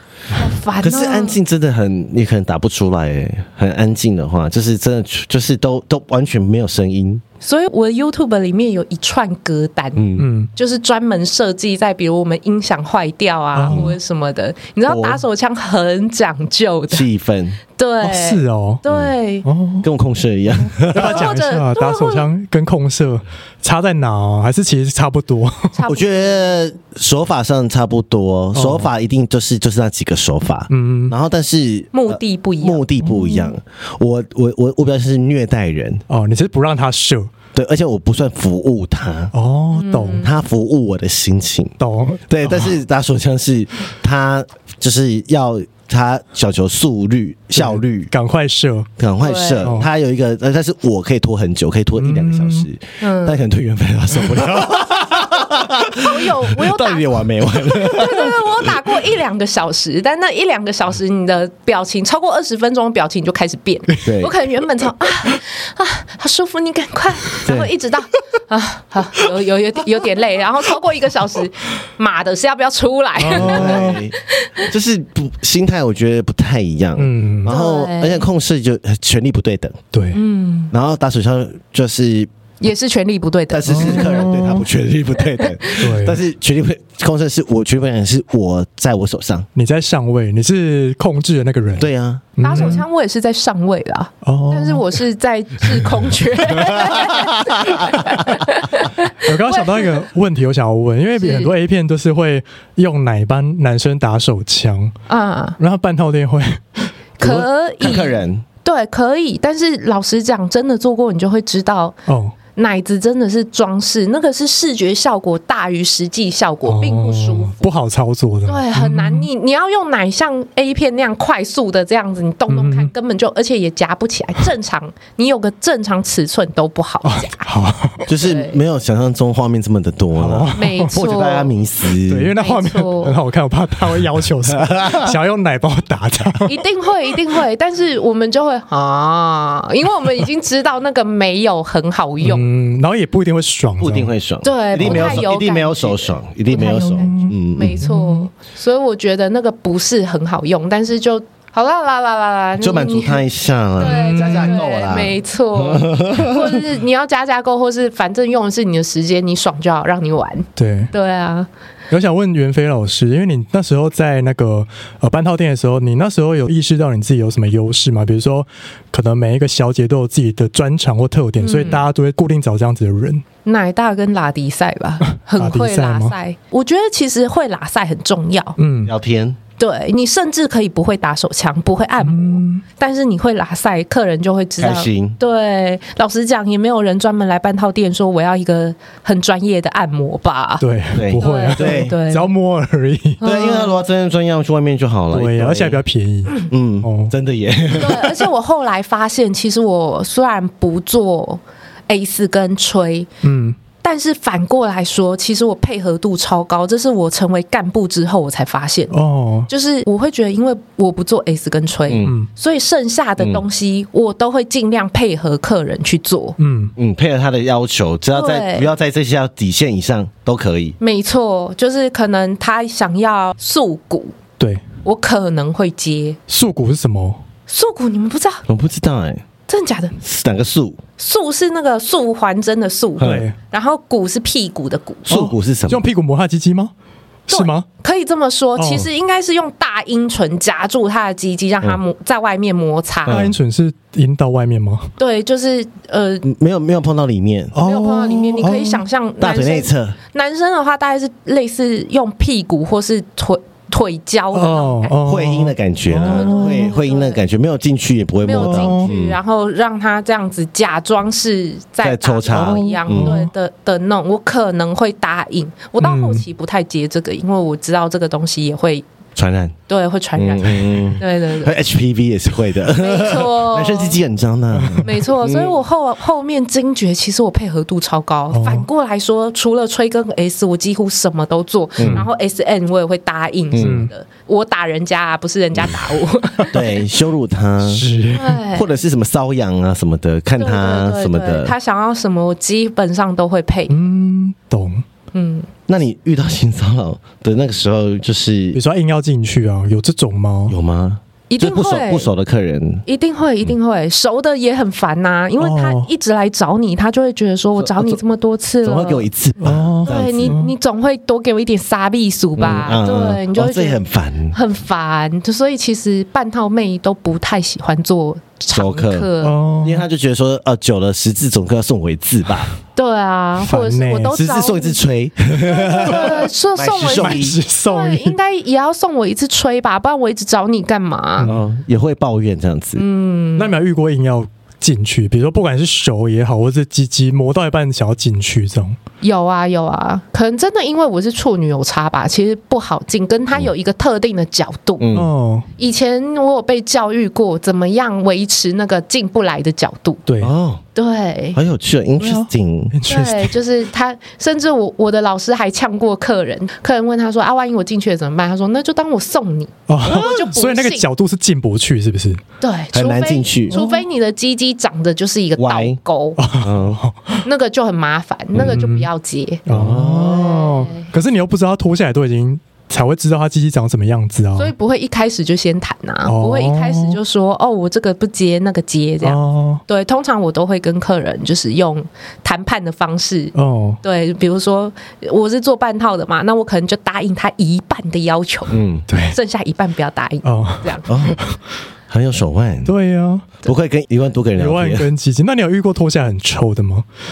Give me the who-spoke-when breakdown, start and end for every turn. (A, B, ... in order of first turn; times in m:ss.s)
0:00.3-0:01.4 A
0:00.8-0:07.2 B
0:07.4-0:17.0 A
0:10.0-0:10.3 B
0:10.2-0:10.5 C
0:13.5-0:13.9 C
0:13.7-0:13.9 B
0:14.9-0:15.2 B
0:16.9-0:17.6 B
0:17.8-0:19.4 A
0:18.0-0:18.8 C
0:19.4-0:19.8 C
0:19.8-0:21.3 B
0:20.6-0:25.8 C
0:20.9-0:22.3 A
0:25.7-0:26.6 A
0:25.9-0:36.0 B
0:28.5-0:28.9 C
0:30.7-0:31.1 C
0:31.9-0:33.4 A
0:33.0-0:33.4 C
0:36.1-0:37.3 C
0:37.5-0:39.3 B
0:39.3-0:40.3 C
0:39.7-0:40.3 A
0:40.2-0:41.8 B
0:41.8-0:42.7 C
0:42.3-0:48.1 B
0:47.6-0:48.9 C
0:49.0-0:58.8 B
0:49.2-0:49.7 A
0:49.6-0:49.9 C
0:52.0-0:52.7 C
0:53.0-0:53.4 A
0:55.9-1:14.6 A
1:04.0-1:04.3 B
1:07.4-1:07.7 B
1:13.2-1:14.0 C
1:13.3-1:19.8 B
1:17.0-1:17.5 C
1:17.5-1:18.2 A
1:19.9-1:20.2 C
1:20.1-1:20.7 A
1:20.7-1:22.3 B
1:22.6-1:24.2 A
1:23.5-1:29.5 B
1:23.7-1:24.6 C
1:25.4-1:25.8 A
1:25.8-1:26.2 C
1:29.5-1:32.8 C
1:31.8-1:32.7 B
1:32.4-1:40.0 A
1:34.2-1:35.0 C
1:36.8-1:38.3 B
1:39.2-1:44.9 C
1:41.2-1:41.5 A
1:45.1-1:45.6 A
1:45.6-1:46.9 C
1:47.2-1:52.0 A
1:47.2-1:48.4 B
1:52.1-1:52.3 C
1:52.6-1:57.6 A
1:56.6-1:59.3 C
1:58.5-2:07.4 A
2:02.5-2:02.9 C
2:07.0-2:08.1 C
2:08.1-2:12.3 B
2:08.2-2:08.6 A
2:10.2-2:10.9 C
2:10.5-2:11.5 A
2:12.1-2:16.6 C
2:12.4-2:13.2 A
2:14.5-2:15.1 B
2:16.4-2:22.4 A
2:22.2-2:24.1 C
2:23.8-2:27.8 B
2:24.4-2:33.2 A
2:24.8-2:25.2 C
2:26.5-2:28.3 C
2:32.6-2:36.6 B
2:33.8-2:41.5 A
2:33.8-2:34.6 C
2:40.6-2:40.9 C
2:41.9-2:53.2 C
2:51.4-2:51.8 A
2:53.4-2:58.6 A
2:55.3-2:56.1 C
2:58.6-2:58.9 C
2:58.8-2:59.4 B
2:59.6-3:10.6 A
3:02.0-3:02.6 C
3:04.6-3:05.2 B
3:10.6-3:13.2 C
3:10.9-3:11.9 B
3:11.2-3:12.3 A
3:13.2-3:13.8 A
3:13.2-3:15.8 B
3:15.1-3:17.1 C
3:16.4-3:18.2 B
3:17.8-3:23.1 A
3:23.2-3:23.6 C
3:23.8-3:29.0 A
3:28.9-3:29.5 C
3:29.5-3:36.4 A
3:31.9-3:32.1 B
3:36.4-3:36.7 C
3:36.8-3:40.8 B
3:38.1-3:38.7 A
3:40.8-3:44.2 A
3:44.4-3:44.6 C
3:44.8-3:46.2 A
3:46.3-3:47.2 C
3:47.5-3:48.4 A
3:48.5-3:49.2 B
3:49.5-3:49.9 A
3:50.0-3:50.8 B
3:51.0-3:55.1 A
3:53.0-3:53.2 B
3:53.0-3:53.3 C
3:55.0-3:55.8 B
3:55.1-3:56.7 C
3:57.3-3:57.6 C
3:57.3-4:03.2 A
3:58.6-3:58.9 C
4:03.0-4:03.3 B
4:03.1-4:04.9 C
4:05.0-4:06.2 A
4:06.2-4:07.5 B
4:07.5-4:08.8 C
4:07.6-4:15.0 A
4:09.2-4:10.0 B
4:14.3-4:16.7 C
4:15.0-4:19.2 B
4:16.0-4:17.2 A
4:18.2-4:28.8 A
4:18.4-4:18.9 C
4:21.8-4:23.2 B
4:22.3-4:23.3 C
4:25.8-4:26.2 C
4:29.2-4:29.5 B
4:29.7-4:31.5 A
4:30.2-4:35.6 B
4:32.7-4:34.0 A
4:34.5-4:34.9 C
4:34.8-4:46.7 A
4:38.3-4:38.7 C
4:41.8-4:42.0 B
4:41.8-4:42.1 C
4:43.5-4:43.8 B
4:43.6-4:43.9 C
4:46.5-4:47.9 B
4:47.6-4:48.4 C
4:48.1-4:48.7 A
4:48.5-4:51.5 B
4:50.4-4:53.8 A
4:53.7-4:54.8 C
4:55.1-4:55.5 A
4:55.7-4:58.6 B
4:58.5-5:00.5 C
5:00.5-5:02.8 B
5:01.3-5:02.1 A
5:02.9-5:09.0 A
5:05.4-5:05.9 C
5:07.6-5:08.0 B
5:08.6-5:10.4 B
5:09.4-5:10.5 C
5:09.8-5:13.8 A
5:12.4-5:14.4 B
5:14.3-5:19.4 A
5:18.5-5:19.1 B
5:19.2-5:19.8 C
5:19.6-5:22.5 B
5:22.7-5:24.8 A
5:23.4-5:24.2 C
5:24.1-5:27.4 B
5:25.4-5:31.3 A
5:25.9-5:26.1 C
5:26.9-5:28.2 C
5:31.2-5:32.8 B
5:32.8-5:33.5 A
5:33.4-5:38.8 C
5:39.0-5:44.8 A
5:44.8-5:45.1 B
5:44.9-5:45.5 C
5:45.6-5:50.0 A
5:50.1-5:50.3 C
5:50.2-5:50.6 B
5:50.7-5:51.4 A
5:51.3-5:52.8 B
5:52.0-5:53.4 C
5:52.8-6:00.8 A
5:59.7-6:02.2 C
6:02.4-6:06.2 A
6:02.7-6:03.6 B
6:03.5-6:03.8 C
6:05.4-6:05.8 B
6:06.2-6:07.2 C
6:06.4-6:06.8 B
6:07.2-6:09.4 A
6:08.3-6:08.9 C
6:09.4-6:14.5 C
6:09.5-6:10.4 B
6:10.0-6:10.9 A
6:14.4-6:28.5 A
6:16.0-6:17.0 C
6:19.0-6:19.6 C
6:23.3-6:23.8 C
6:28.5-6:28.8 B
6:28.9-6:29.2 C
6:29.1-6:30.9 A
6:30.2-6:31.4 C
6:30.9-6:31.2 B
6:31.9-6:32.7 B
6:32.6-6:33.4 C
6:33.4-6:34.9 B
6:34.4-6:36.8 C